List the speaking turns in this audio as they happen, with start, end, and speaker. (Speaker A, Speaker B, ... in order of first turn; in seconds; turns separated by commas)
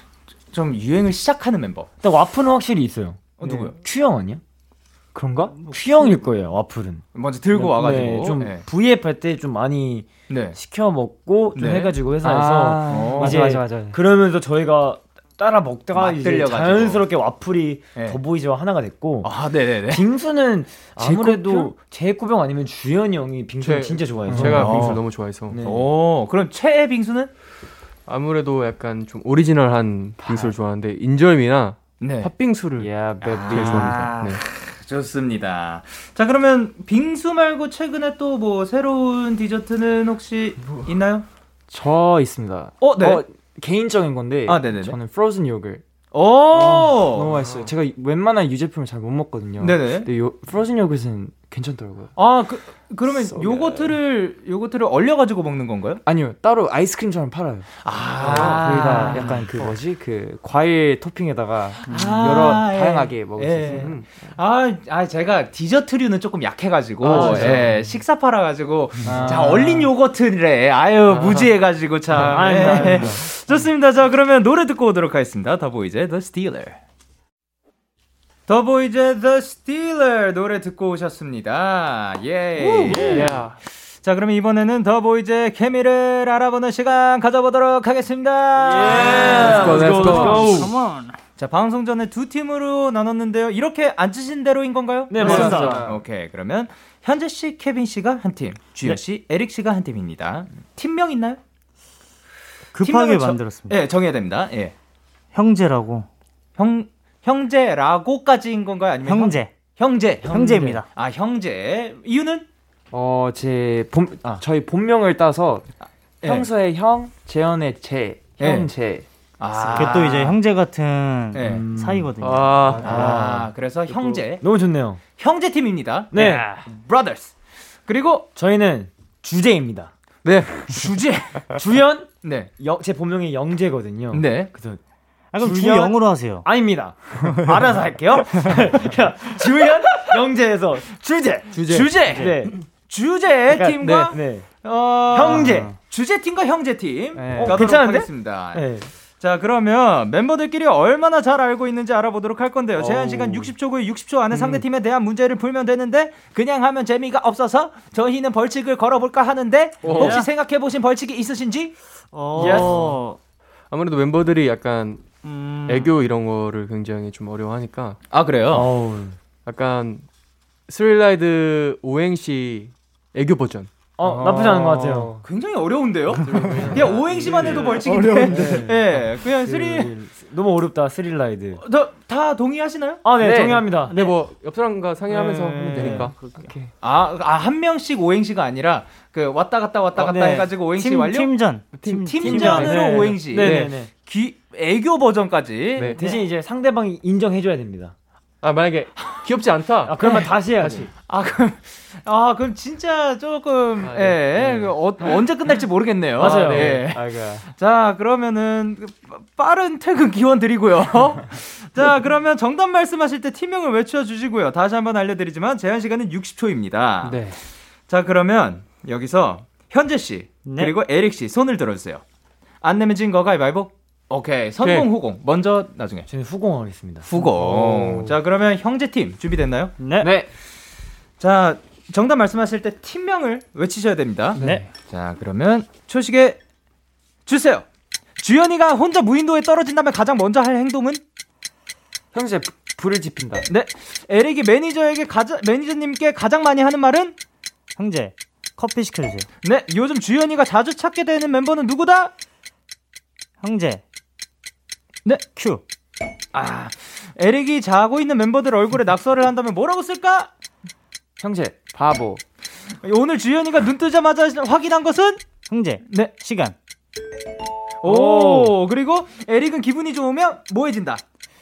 Speaker A: 0.5-1.9, Speaker B: 2.0-4.4, Speaker A: 3.4-3.8, Speaker C: 5.2-5.5, Speaker B: 5.4-19.3, Speaker D: 5.5-6.2, Speaker A: 7.1-8.7, Speaker A: 10.3-10.6, Speaker A: 11.5-12.0, Speaker C: 12.2-14.0, Speaker A: 12.9-13.6, Speaker A: 15.9-17.1, Speaker A: 17.9-18.2, Speaker A: 19.2-20.1, Speaker B: 19.9-25.0, Speaker C: 21.0-21.7, Speaker E: 21.0-21.3, Speaker E: 23.6-25.6, Speaker C: 24.3-24.7, Speaker A: 24.4-25.0, Speaker B: 25.5-25.9, Speaker A: 25.6-27.3, Speaker E: 28.1-32.9, Speaker C: 30.2-30.5, Speaker A: 32.0-32.3, Speaker C: 32.8-34.1, Speaker A: 33.2-41.3, Speaker E: 33.5-34.4, Speaker C: 41.7-45.8, Speaker A: 42.8-43.2, Speaker A: 44.5-45.0, Speaker A: 46.1-47.4, Speaker C: 46.5-52.1, Speaker E: 47.4-47.7, Speaker A: 49.6-50.1, Speaker A: 52.2-56.0, Speaker C: 53.1-54.0, Speaker C: 56.1-64.0, Speaker A: 57.8-59.4, Speaker E: 58.3-58.6, Speaker D: 58.8-59.7, Speaker D: 61.9-62.3, Speaker A: 61.9-76.8, Speaker E: 63.8-64.0, Speaker C: 67.0-67.8, Speaker B: 67.1-67.5, Speaker D: 69.0-69.3, Speaker C: 69.1-69.7, Speaker B: 69.1-69.9, Speaker E: 71.1-71.4, Speaker B: 72.2-73.2, Speaker C: 72.2-73.1, Speaker A: 78.5-90.4, Speaker D: 82.9-83.3, Speaker E: 83.0-83.6, Speaker D: 88.6-91.2, Speaker C: 88.8-90.7, Speaker E: 89.0-90.7, Speaker B: 89.1-90.7, Speaker A: 91.4-101.4, Speaker B: 95.1-95.9, Speaker C: 95.2-95.9, Speaker D: 95.2-95.8, Speaker E: 95.3-95.6, Speaker D: 102.7-103.8, Speaker A: 102.8-104.7, Speaker D: 105.3-106.1, Speaker A: 106.6-112.5, Speaker D: 109.0-109.5, Speaker D: 110.2-110.9, Speaker C: 110.4-110.8, Speaker C: 112.9-115.7, Speaker A: 115.8-116.5, Speaker C: 116.2-119.1, Speaker A: 118.4-118.7, Speaker A: 119.4-120.4, Speaker D: 119.7-123.3, Speaker A: 121.3-121.7, Speaker B: 121.5-122.1, Speaker E: 122.2-123.1, Speaker A: 122.8-124.5, Speaker C: 122.9-123.4, Speaker B: 122.9-123.3, Speaker C: 123.9-124.2, Speaker B: 124.4-125.0, Speaker A: 125.2-127.3, Speaker B: 126.1-126.5, Speaker D: 126.2-126.5, Speaker A: 127.9-128.3, Speaker B: 128.3-129.9, Speaker A: 130.2-131.6, Speaker B: 131.6-134.8, Speaker A: 132.2-132.5, Speaker A: 134.1-134.5, Speaker D: 135.3-136.5, Speaker B: 135.4-141.6, Speaker E: 141.5-141.9, Speaker A: 141.6-148.7, Speaker B: 142.1-142.5, Speaker B: 143.5-144.5, Speaker B: 145.1-145.7, Speaker D: 145.3-145.8, Speaker C: 147.2-147.6, Speaker B: 147.3-148.9, Speaker A: 149.2-161.8, Speaker C: 152.8-153.4, Speaker E: 159.8-160.2, Speaker D: 159.9-160.2, Speaker D: 162.1-163.2, Speaker A: 162.3-162.8, Speaker E: 162.4-162.8, Speaker E: 163.7-165.1, Speaker D: 165.2-165.9, Speaker E: 165.7-168.0, Speaker A: 168.1-168.7, Speaker B: 168.5-169.2, Speaker E: 169.4-170.1, Speaker E: 170.7-173.7, Speaker B: 174.0-175.2, Speaker C: 174.0-175.1, Speaker D: 174.1-175.1, Speaker A: 175.2-179.9, Speaker E: 176.2-178.0, Speaker D: 176.3-176.7, Speaker C: 177.3-177.7, Speaker D: 177.8-178.7, Speaker B: 178.3-178.7, Speaker B: 179.4-181.6, Speaker A: 181.6-183.1, Speaker B: 183.0-183.9, Speaker C: 183.2-183.6, Speaker E: 183.2-186.2, Speaker D: 183.9-184.2, Speaker D: 185.1-186.5, Speaker A: 186.8-191.4, Speaker D: 190.0-193.0, Speaker E: 191.8-193.7, Speaker A: 192.0-196.0, Speaker B: 192.3-193.9, Speaker E: 195.8-196.0, Speaker B: 196.0-197.9, Speaker E: 198.4-200.3, Speaker B: 199.8-200.9, Speaker A: 200.0-217.3, Speaker E: 203.8-204.7, Speaker B: 206.2-206.8, Speaker E: 206.2-206.9, Speaker C: 206.3-207.5, Speaker A: 217.9-222.0, Speaker D: 220.4-220.8, Speaker A: 222.6-226.1, Speaker E: 224.6-224.9, Speaker B: 226.1-227.2, Speaker A: 227.1-229.7, Speaker C: 227.4-227.7, Speaker D: 229.8-230.1, Speaker C: 230.0-230.3, Speaker A: 231.2-236.4, Speaker C: 234.4-234.7, Speaker D: 234.4-234.6, Speaker A: 237.3-237.7, Speaker A: 238.2-241.0, Speaker C: 242.1-243.5, Speaker A: 243.5-247.2, Speaker D: 247.8-249.3, Speaker A: 249.4-252.1, Speaker D: 253.4-253.8, Speaker D: 255.4-255.6, Speaker A: 256.3-260.3, Speaker C: 261.2-262.2, Speaker A: 262.8-265.2, Speaker D: 265.5-266.6, Speaker A: 265.9-266.1, Speaker A: 267.8-271.0